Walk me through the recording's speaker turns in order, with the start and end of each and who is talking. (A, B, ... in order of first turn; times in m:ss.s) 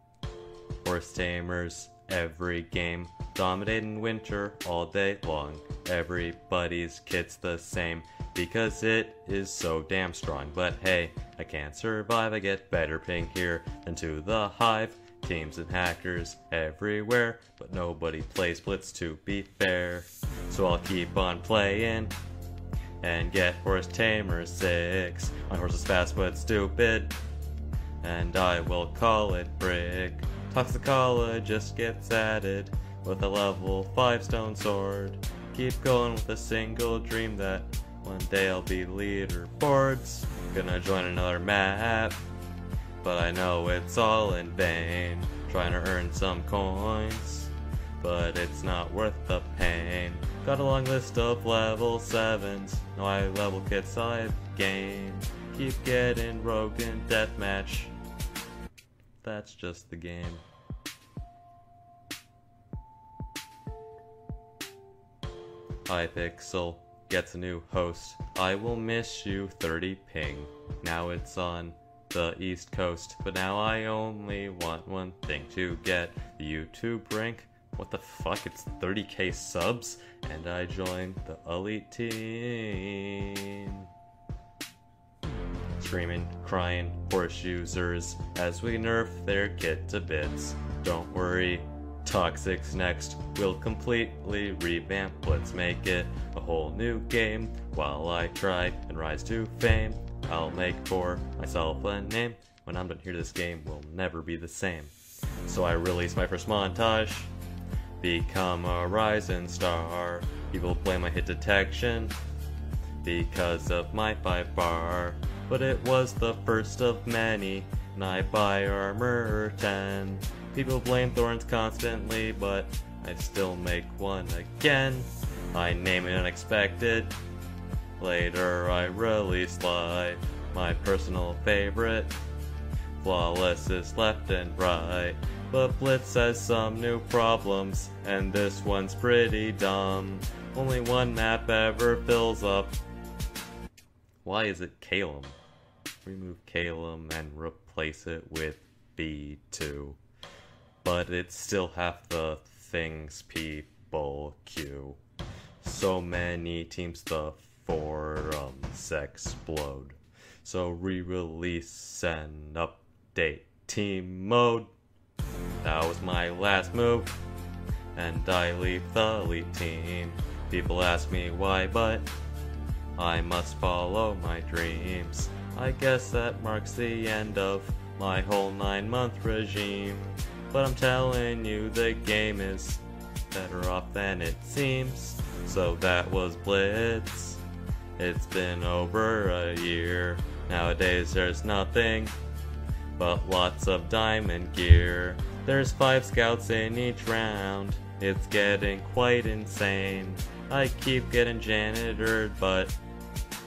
0:00.8-0:22.1 A
0:23.0-0:27.2 A
0:28.0-0:42.2 A
0:43.0-0:57.9 A
0:59.2-1:00.4 A
1:05.9-1:23.9 A
1:25.8-1:44.9 A
1:45.4-1:47.3 A
1:48.0-1:52.1 A
1:53.0-2:07.2 A
2:08.0-2:12.2 A
2:13.0-2:22.8 A
2:24.2-2:25.4 A
2:26.0-2:30.0 A
2:30.8-2:35.0 A
2:35.6-2:44.7 A
2:45.6-2:47.2 A
2:47.9-2:52.1 A
2:53.0-3:07.4 A
3:08.0-3:12.2 A
3:13.0-3:22.8 A